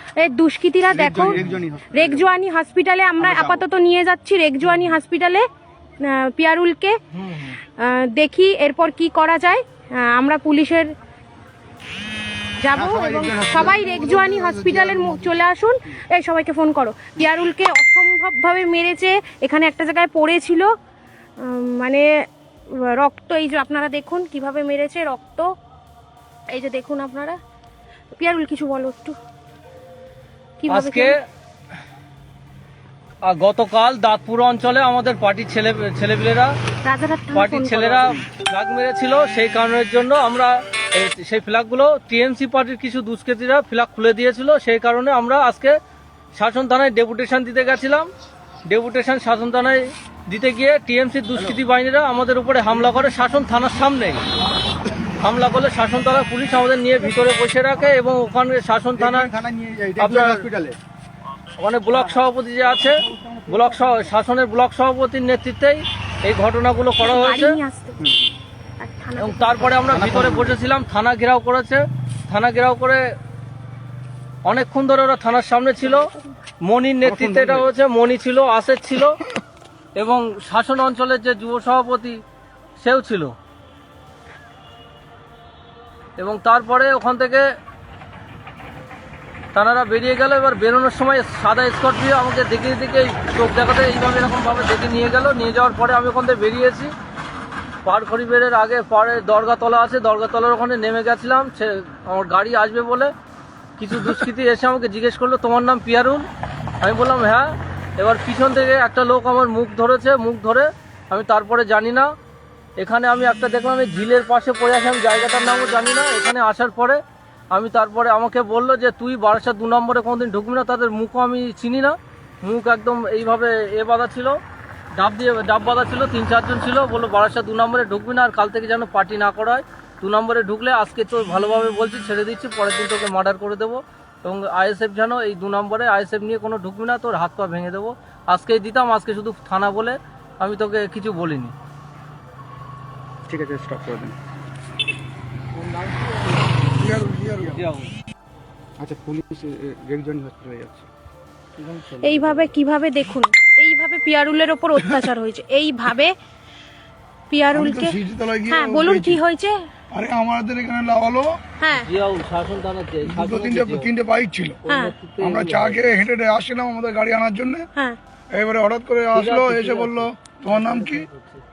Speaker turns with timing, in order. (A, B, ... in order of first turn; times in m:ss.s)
0:00.2-0:01.4 A
0:00.9-0:02.2 B
0:01.9-0:05.4 A
0:03.2-0:03.6 B
0:06.0-0:07.0 A
0:07.1-0:07.6 C
0:07.6-0:10.9 A
0:12.6-0:20.7 A
0:12.7-0:15.4 B
0:21.4-0:22.1 A
0:22.7-0:25.5 A
0:26.5-0:27.4 A
0:28.1-0:29.2 A
0:30.6-0:31.1 A
0:30.7-0:31.1 C
0:33.2-0:36.5 C
0:36.8-0:38.2 A
0:37.3-0:45.8 C
0:46.4-0:48.1 C
0:48.6-0:54.2 C
0:55.2-0:59.3 C
0:59.0-1:00.8 B
1:00.0-1:00.4 C
1:01.6-1:07.5 C
1:01.9-1:02.2 B
1:02.8-1:04.0 B
1:07.0-1:08.0 A
1:08.8-1:09.8 A
1:09.2-1:13.0 C
1:09.9-1:10.6 B
1:14.5-1:16.1 C
1:16.0-1:16.3 A
1:16.6-1:19.2 C
1:17.0-1:17.7 B
1:20.0-1:22.2 C
1:22.8-1:23.3 C
1:26.2-1:27.4 C
1:29.5-1:36.9 C
1:37.8-1:43.1 C
1:43.8-1:46.2 C
1:46.8-1:52.1 C
1:52.8-1:57.0 C
1:57.5-2:04.4 C
2:05.0-2:21.5 C
2:23.3-2:24.2 B
2:25.5-2:26.6 C
2:26.8-2:27.6 D
2:27.5-2:27.9 C
2:28.8-2:30.9 B
2:31.6-2:32.4 C
2:32.0-2:36.1 A
2:37.3-2:38.0 A
2:37.5-2:39.2 D
2:38.5-2:39.5 A
2:39.9-2:41.3 D
2:41.6-2:41.9 A
2:41.7-2:43.9 C
2:43.0-2:44.6 D
2:44.6-2:45.9 C
2:44.7-2:44.9 A
2:45.2-2:47.7 D
2:48.3-2:51.1 D
2:49.1-2:51.4 C